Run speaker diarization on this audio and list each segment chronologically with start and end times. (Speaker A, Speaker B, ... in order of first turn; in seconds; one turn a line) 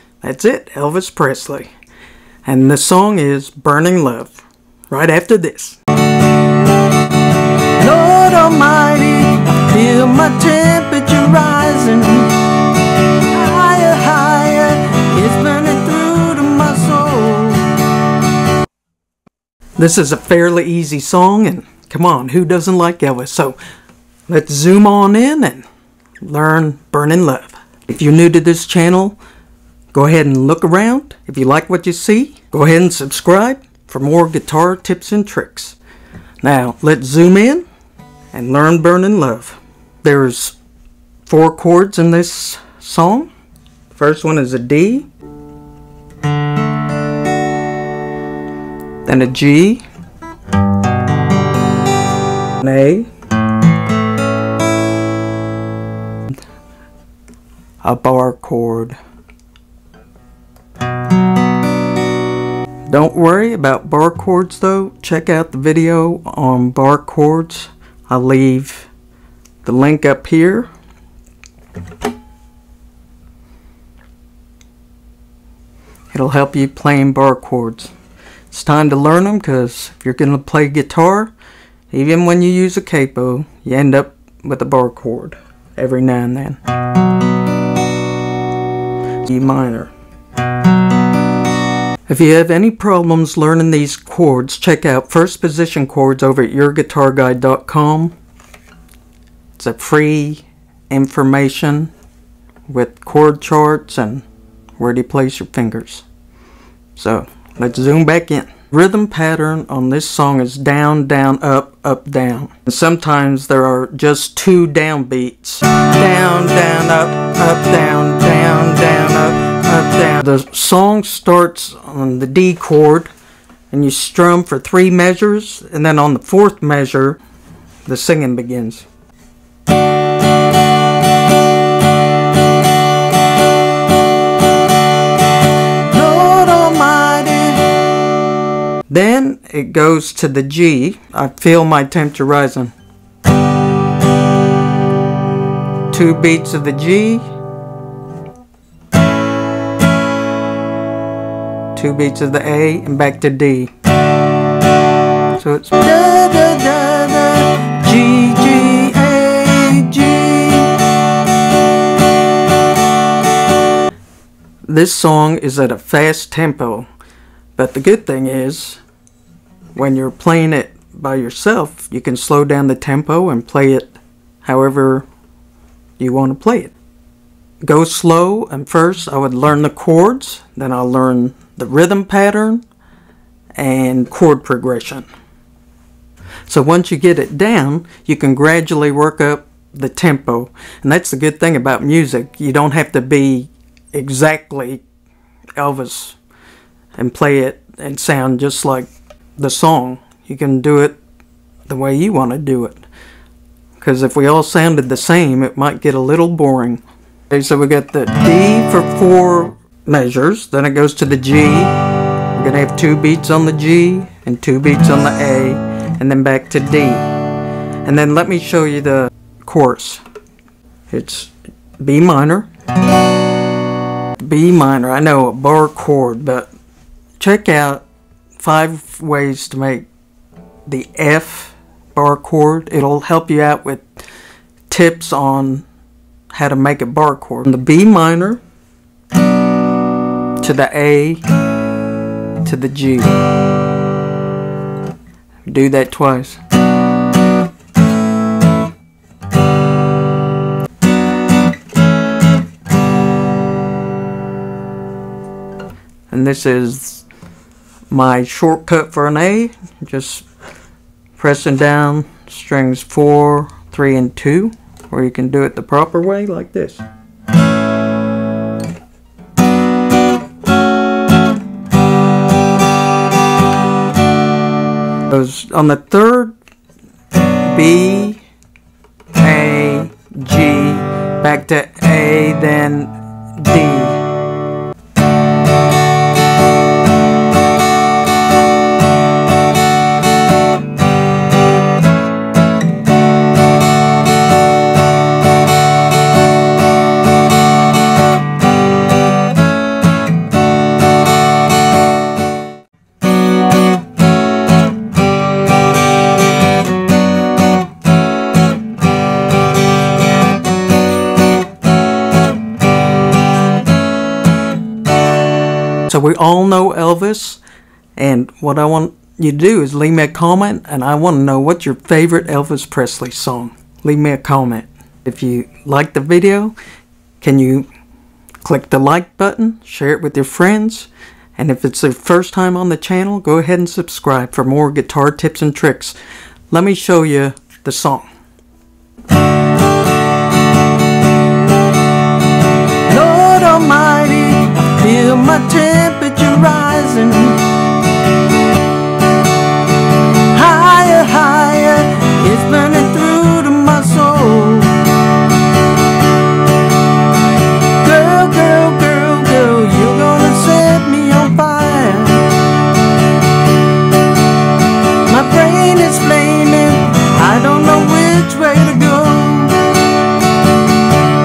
Speaker A: 0.2-1.7
Speaker A: 2.4-5.8
Speaker A: 7.8-12.3
Speaker A: 13.3-17.7
Speaker A: 19.8-23.6
Speaker A: 24.3-25.6
Speaker A: 26.2-29.2
Speaker A: 29.9-35.8
Speaker A: 36.4-37.6
Speaker A: 38.3-40.5
Speaker A: 41.2-43.3
Speaker A: 43.9-45.1
Speaker A: 49.0-49.8
Speaker A: 52.6-53.1
Speaker A: 57.8-59.0
Speaker A: 62.9-68.9
Speaker A: 69.6-70.7
Speaker A: 76.1-77.9
Speaker A: 78.5-81.3
Speaker A: 81.9-86.6
Speaker A: 89.2-89.9
Speaker A: 92.1-98.1
Speaker A: 99.6-101.9
Speaker A: 102.7-104.2
Speaker A: 104.8-106.0
Speaker A: 107.0-123.1
Speaker A: 123.7-127.2
Speaker A: 127.8-128.8
Speaker A: 135.9-137.7
Speaker A: 138.9-142.7
Speaker A: 145.9-147.3
Speaker A: 151.7-153.7
Speaker A: 155.3-160.8
Speaker A: 164.7-166.9
Speaker A: 167.6-168.8
Speaker A: 169.7-175.1
Speaker A: 176.0-176.7
Speaker A: 177.6-182.6
Speaker A: 183.6-185.1
Speaker A: 186.4-194.8
Speaker A: 195.6-196.2
Speaker A: 196.9-201.0
Speaker A: 201.7-202.8
Speaker A: 203.8-211.8
Speaker A: 212.3-217.0
Speaker A: 217.8-220.0
Speaker A: 220.9-222.5
Speaker A: 224.2-226.5
Speaker A: 227.2-227.8
Speaker A: 228.4-229.9
Speaker A: 230.7-233.9
Speaker A: 234.7-235.6
Speaker A: 236.3-238.4
Speaker A: 240.4-241.2
Speaker A: 242.4-243.2
Speaker A: 245.5-246.4
Speaker A: 256.1-257.1
Speaker A: 257.9-260.2
Speaker A: 261.2-266.8
Speaker A: 275.1-276.3
Speaker A: 277.5-278.2
Speaker A: 279.1-284.0
Speaker A: 315.9-317.4
Speaker A: 317.9-326.5
Speaker A: 327.2-327.7
Speaker A: 328.4-335.9
Speaker A: 336.5-338.1
Speaker A: 342.9-347.4
Speaker A: 350.3-354.8
Speaker A: 357.8-362.3
Speaker A: 365.1-369.7